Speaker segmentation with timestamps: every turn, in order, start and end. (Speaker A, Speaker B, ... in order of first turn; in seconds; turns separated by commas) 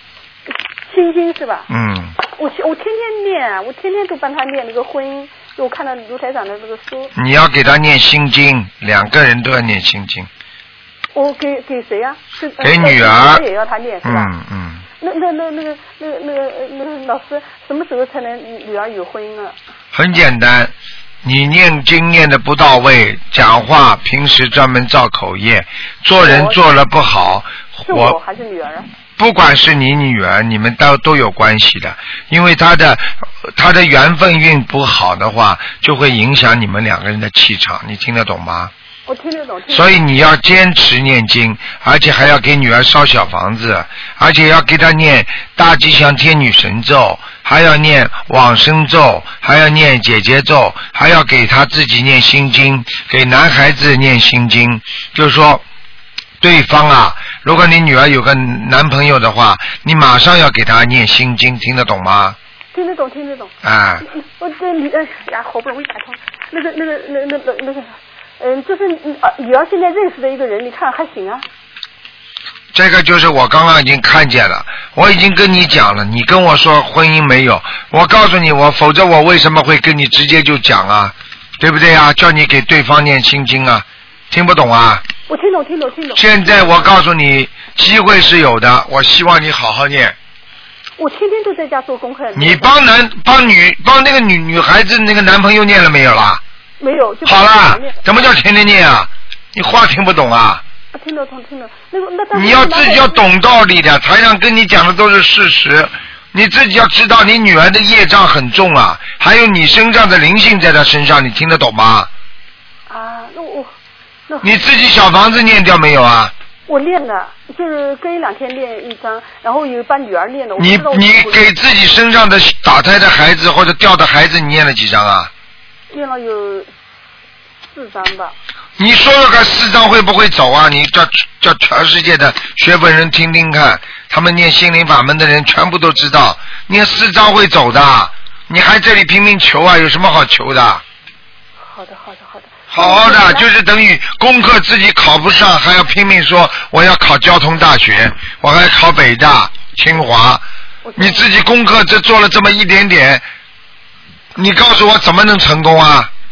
Speaker A: 0.9-7.1, Speaker B: 1.7-2.2, Speaker B: 7.2-10.3, Speaker A: 11.1-14.3, Speaker B: 12.6-13.4, Speaker B: 14.0-14.8, Speaker A: 15.0-19.6, Speaker B: 19.9-28.2, Speaker A: 26.2-26.6, Speaker A: 27.8-28.9, Speaker B: 29.2-38.7, Speaker A: 39.1-40.0, Speaker B: 39.7-55.6, Speaker B: 56.4-62.4, Speaker A: 62.7-63.5, Speaker B: 63.6-64.1, Speaker A: 64.0-71.5, Speaker B: 72.7-85.0, Speaker A: 85.3-86.9, Speaker B: 86.2-90.2, Speaker A: 91.0-92.7, Speaker B: 92.4-96.4, Speaker A: 96.8-98.0, Speaker B: 97.2-100.6, Speaker A: 100.9-103.2, Speaker B: 102.3-112.1, Speaker A: 112.9-113.7, Speaker A: 114.3-114.8, Speaker B: 114.4-116.3, Speaker A: 116.7-121.5, Speaker B: 120.6-125.3, Speaker A: 125.9-126.7, Speaker A: 127.7-128.3, Speaker B: 128.8-140.8, Speaker A: 141.6-143.5, Speaker B: 142.7-150.4, Speaker A: 150.8-151.3, Speaker B: 151.0-153.2, Speaker B: 154.3-156.1